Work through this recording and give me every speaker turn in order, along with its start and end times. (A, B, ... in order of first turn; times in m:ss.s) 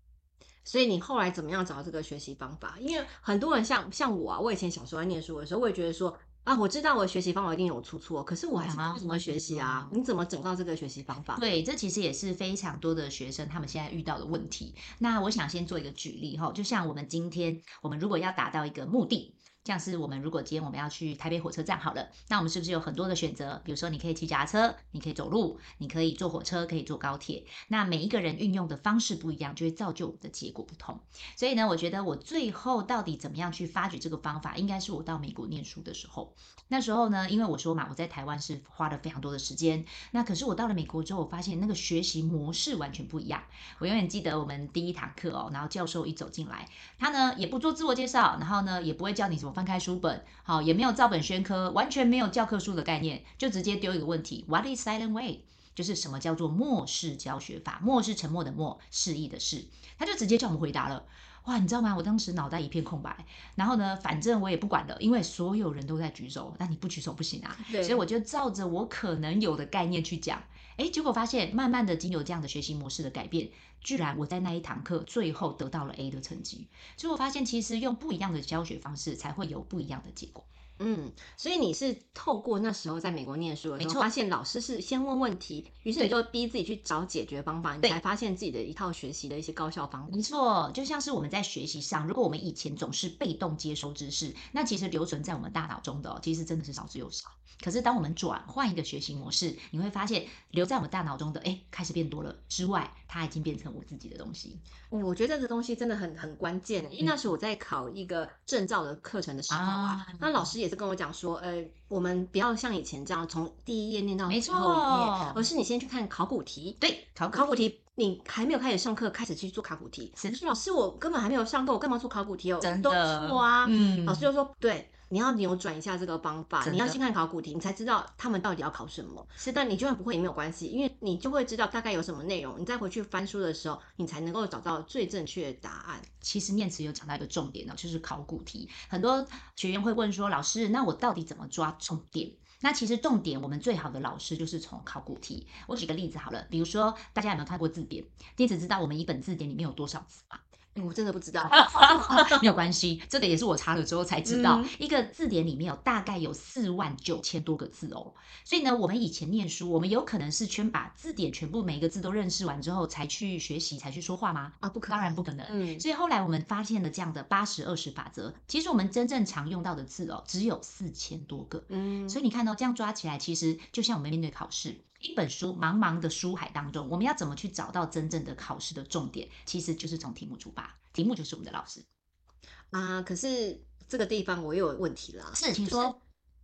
0:00.6-0:11.6 A
0:08.6-0:09.9 B
0:11.4-1:20.5 B
1:07.6-1:08.0 A
1:20.8-1:30.2 A
1:23.8-1:24.1 B
1:30.1-1:44.6 B
1:44.9-2:16.1 A
1:49.5-1:50.5 B
1:54.3-1:55.4 B
1:56.8-1:57.5 B
2:02.6-2:04.3 B
2:06.6-2:07.0 B
2:16.2-2:30.4 B
2:30.8-2:32.4 A
2:31.5-3:01.9 B
2:34.3-2:34.7 A
2:44.6-2:45.8 A
2:51.7-2:52.2 A
3:02.7-3:06.0 A
3:05.3-3:06.0 B